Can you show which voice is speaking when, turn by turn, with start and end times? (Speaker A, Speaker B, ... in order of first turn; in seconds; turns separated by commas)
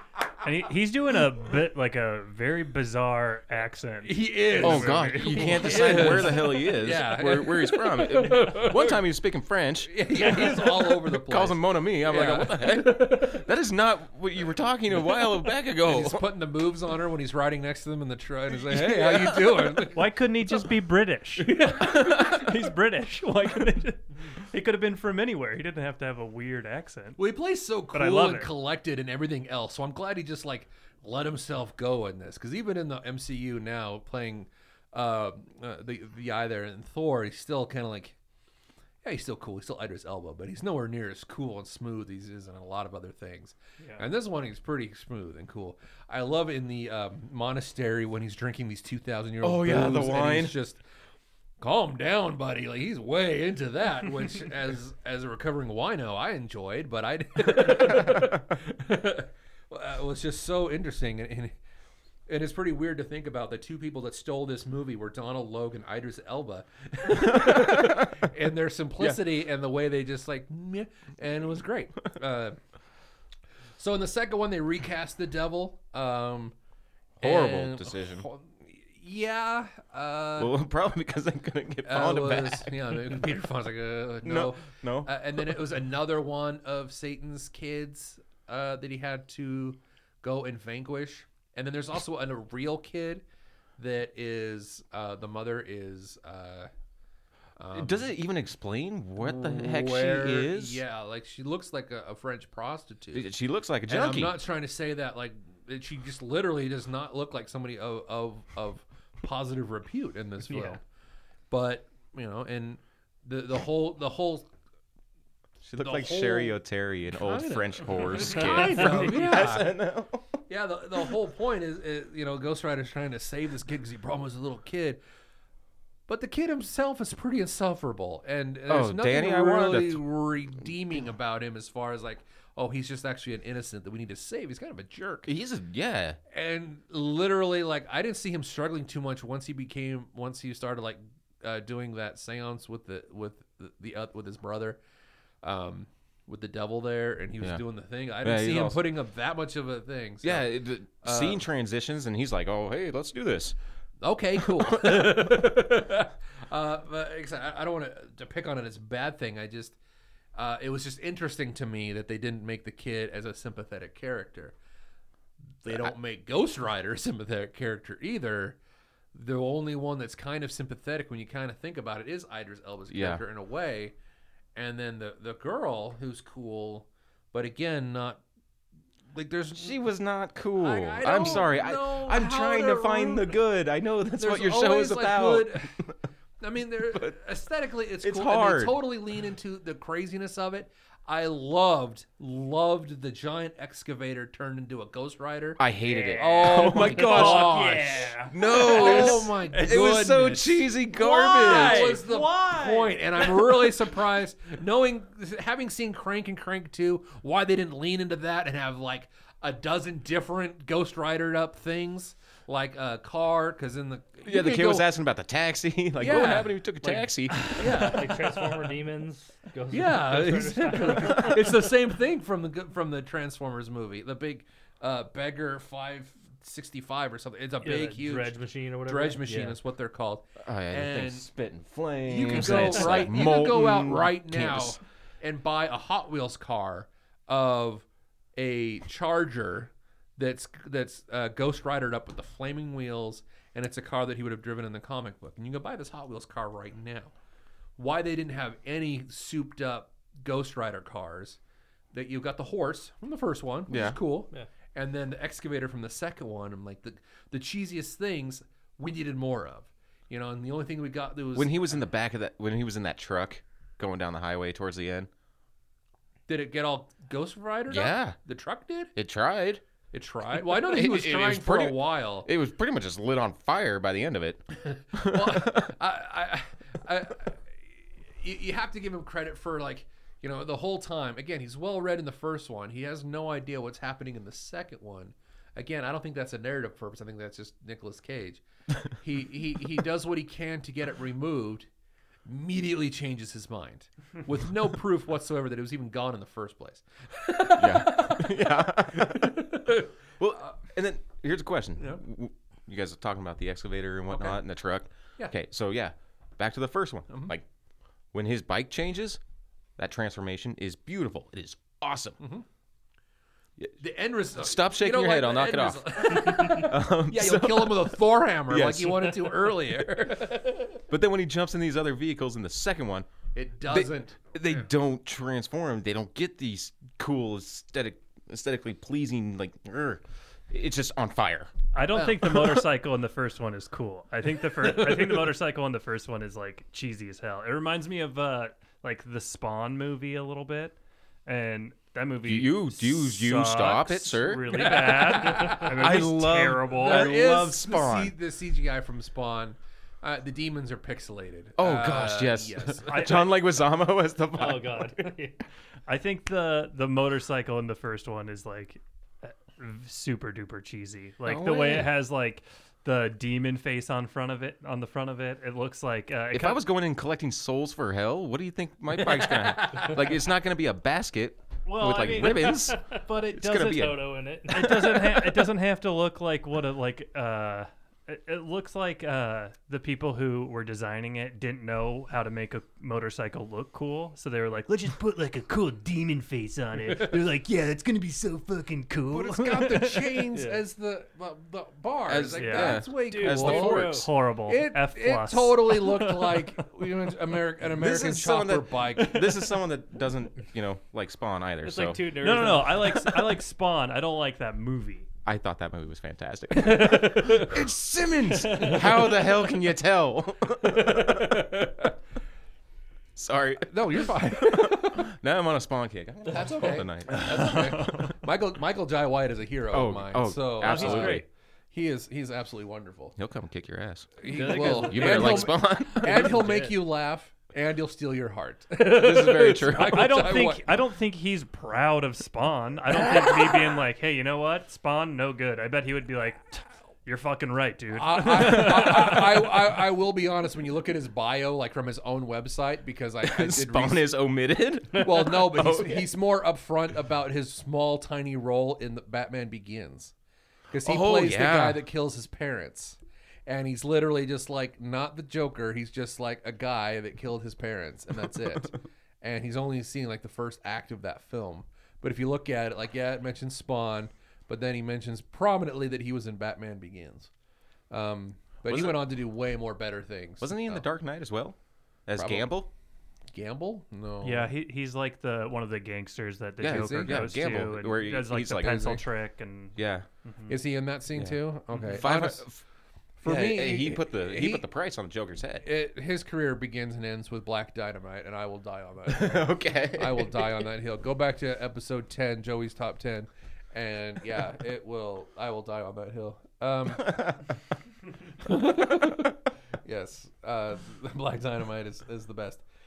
Speaker A: 0.4-6.3, Speaker B: 4.0-9.0, Speaker C: 4.6-16.2, Speaker B: 9.8-13.4, Speaker A: 10.2-10.6, Speaker B: 15.8-20.0, Speaker C: 18.6-19.6, Speaker A: 19.9-27.2, Speaker B: 21.4-22.4, Speaker B: 27.2-38.1, Speaker A: 27.9-28.5, Speaker B: 39.0-50.8, Speaker C: 49.4-50.5, Speaker B: 51.6-61.5, Speaker B: 62.3-72.6, Speaker C: 67.2-68.2, Speaker B: 73.8-76.5, Speaker B: 77.2-80.5, Speaker C: 77.2-78.3, Speaker C: 80.4-82.7, Speaker B: 81.8-93.2, Speaker C: 84.2-85.4, Speaker B: 93.8-96.7, Speaker B: 97.6-98.1, Speaker C: 97.7-100.8, Speaker B: 99.2-103.3, Speaker C: 103.1-104.4, Speaker B: 103.9-110.8, Speaker B: 111.5-114.5, Speaker C: 115.6-120.4, Speaker B: 115.8-116.5, Speaker B: 117.1-119.7, Speaker B: 120.5-125.0, Speaker B: 126.1-135.3, Speaker C: 128.7-130.0, Speaker C: 135.2-136.2, Speaker B: 136.3-144.8, Speaker B: 145.4-150.5, Speaker C: 148.2-148.8, Speaker C: 150.2-153.5, Speaker B: 151.0-151.4, Speaker B: 154.0-159.8, Speaker C: 154.4-155.2, Speaker B: 160.3-164.5, Speaker B: 165.6-168.6, Speaker B: 169.1-173.9, Speaker C: 172.9-173.2, Speaker B: 174.6-178.2, Speaker B: 179.1-179.8, Speaker C: 179.5-185.9, Speaker B: 180.6-183.4, Speaker B: 184.2-185.7, Speaker B: 186.4-214.9, Speaker C: 188.0-188.7, Speaker C: 195.6-197.6, Speaker A: 195.8-199.8, Speaker C: 198.3-202.0, Speaker A: 200.9-203.7, Speaker C: 214.2-217.9, Speaker B: 216.0-218.3, Speaker D: 217.6-221.4, Speaker B: 219.7-231.3, Speaker D: 227.6-229.6, Speaker C: 230.4-234.8, Speaker B: 232.0-247.1, Speaker A: 232.3-233.1, Speaker B: 247.8-251.4, Speaker B: 251.9-261.8, Speaker C: 253.7-254.0, Speaker C: 261.3-265.1, Speaker B: 266.3-268.9, Speaker C: 267.7-268.1, Speaker C: 268.9-269.6, Speaker B: 269.9-272.3, Speaker C: 270.4-275.7, Speaker B: 274.6-277.4, Speaker B: 278.2-291.7, Speaker B: 292.2-299.9, Speaker C: 297.5-299.6, Speaker C: 300.2-307.4, Speaker B: 304.1-304.4, Speaker C: 308.1-309.2, Speaker C: 309.8-312.2, Speaker B: 312.2-312.4, Speaker B: 313.8-320.8, Speaker C: 314.4-317.9, Speaker C: 318.5-319.3, Speaker C: 320.9-323.1, Speaker B: 323.3-324.4, Speaker C: 323.7-331.5, Speaker A: 331.7-347.2, Speaker B: 331.9-332.2, Speaker C: 332.3-332.6, Speaker B: 334.6-335.3, Speaker C: 342.2-344.7, Speaker B: 344.5-346.0, Speaker C: 345.5-348.1, Speaker B: 346.7-353.2, Speaker C: 351.6-355.1, Speaker A: 352.9-353.3, Speaker D: 354.3-355.4, Speaker A: 355.9-366.6, Speaker C: 361.2-361.9, Speaker C: 366.3-374.0, Speaker B: 369.3-369.9, Speaker A: 371.6-374.0, Speaker D: 373.6-374.7, Speaker A: 374.5-390.2, Speaker C: 374.6-375.4, Speaker B: 389.1-393.7, Speaker D: 390.3-390.6, Speaker C: 392.1-394.1, Speaker A: 392.4-396.4, Speaker D: 392.9-394.1, Speaker B: 394.5-399.5, Speaker C: 397.6-402.1, Speaker D: 401.6-403.1, Speaker A: 402.2-405.1, Speaker C: 405.2-411.5, Speaker A: 406.6-407.5, Speaker B: 410.9-411.9, Speaker C: 413.1-417.9, Speaker B: 413.6-415.1, Speaker B: 416.3-423.1, Speaker A: 417.1-418.1, Speaker C: 419.7-421.2, Speaker A: 420.6-421.2, Speaker C: 423.1-426.4, Speaker B: 424.2-430.7, Speaker D: 424.2-426.8, Speaker C: 428.8-430.1, Speaker A: 429.8-439.5, Speaker B: 437.9-444.1, Speaker C: 443.2-446.1, Speaker B: 444.9-450.1, Speaker B: 450.7-467.3, Speaker C: 450.8-451.8, Speaker B: 467.9-470.8, Speaker C: 468.6-469.0, Speaker C: 470.4-471.6, Speaker C: 472.1-472.7, Speaker B: 472.1-472.5, Speaker B: 473.3-474.5, Speaker A: 474.2-480.6, Speaker C: 476.6-479.0, Speaker B: 476.6-477.3, Speaker C: 479.8-480.1, Speaker B: 480.5-482.4, Speaker A: 481.7-482.0, Speaker C: 481.9-482.6, Speaker B: 483.2-484.6, Speaker C: 483.2-485.6, Speaker B: 485.6-497.4, Speaker C: 489.1-490.6, Speaker C: 497.1-497.4, Speaker B: 498.4-502.6